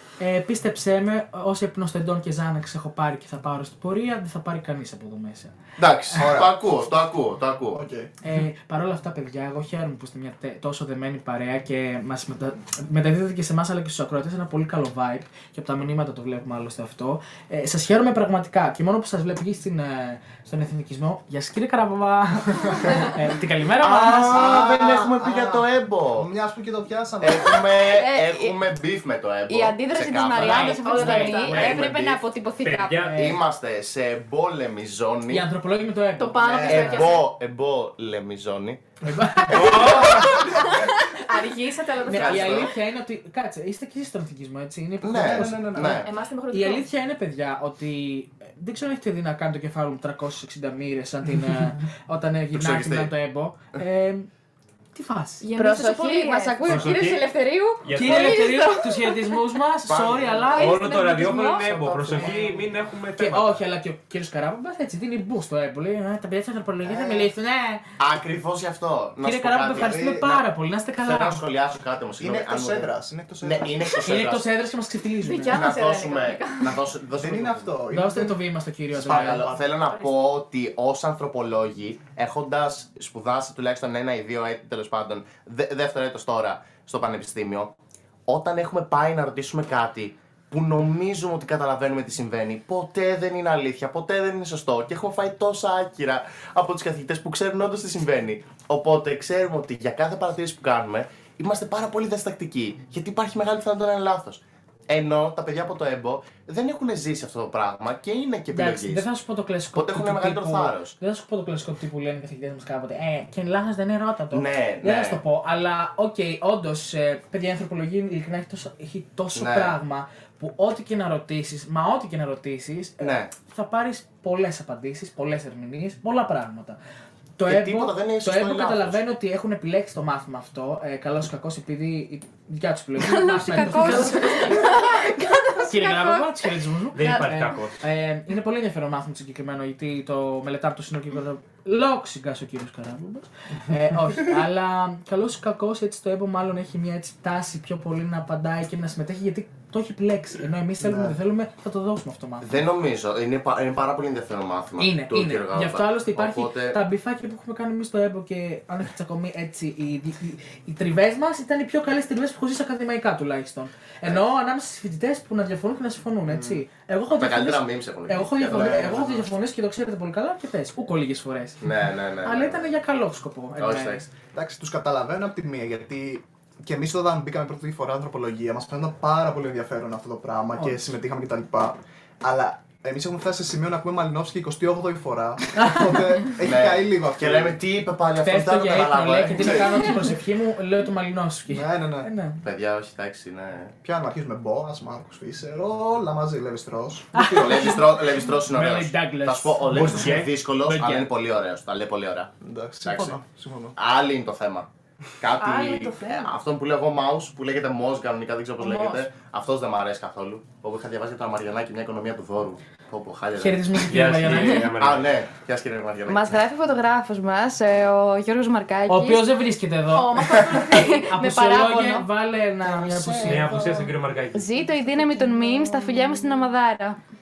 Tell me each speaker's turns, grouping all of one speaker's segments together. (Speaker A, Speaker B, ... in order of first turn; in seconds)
Speaker A: 0.2-5.5, 8.2-24.6, 30.3-31.5, 33.0-33.4, 35.3-36.9, 39.0-40.4, 42.0-54.3, 54.9-55.5, 57.9-61.0, 62.1-62.6, 63.1-67.8, 69.2-71.4, 74.0-75.6, 77.9-79.5, 108.5-126.8, 127.4-134.7, 135.6-152.5, 154.8-174.1, 180.5-180.9, 185.6-185.9, 188.2-192.4, 197.1-201.1, 213.4-214.7, 218.9-223.9
Speaker B: 5.8-7.9, 23.8-26.3, 27.2-32.2, 33.1-35.5, 36.4-38.8, 42.0-42.7, 45.0-46.1, 52.5-53.1, 59.9-60.5, 68.0-70.0, 71.0-74.4, 75.5-77.8, 78.9-87.7, 88.3-109.1, 109.7-111.0, 114.3-115.2, 119.3-119.7, 123.0-123.3, 127.5-129.0, 152.4-156.8, 167.2-169.2, 171.6-172.7, 173.6-174.0, 186.4-190.1, 192.4-193.8, 197.3-202.3, 202.8-203.2, 203.8-204.7, 205.2-213.6, 214.2-216.4
Speaker C: 6.1-6.5, 7.7-8.1, 23.9-27.7, 36.5-37.1, 39.6-40.3, 45.2-45.9, 66.8-67.3, 69.7-70.4, 72.2-74.0, 77.2-78.4, 79.0-79.6, 150.8-151.1, 166.3-166.6, 168.5-169.1, 174.3-187.6, 191.5-192.1, 193.8-197.8, 202.4-203.8, 222.8-223.6
Speaker D: 27.9-28.6, 29.5-33.1, 55.5-58.8, 60.5-62.4, 133.0-136.3, 137.0-137.4, 216.1-219.3, 220.7-222.1, 224.3-227.0
Speaker E: 30.6-31.8, 36.2-37.2, 41.1-42.6, 45.9-46.8, 55.4-56.7, 75.2-76.8, 205.4-206.3, 208.6-209.1, 219.9-221.2
Speaker F: 31.5-33.4, 39.5-40.5, 56.6-57.2, 57.8-58.5, 60.5-63.6, 136.9-137.8, 213.9-215.1, 223.2-224.4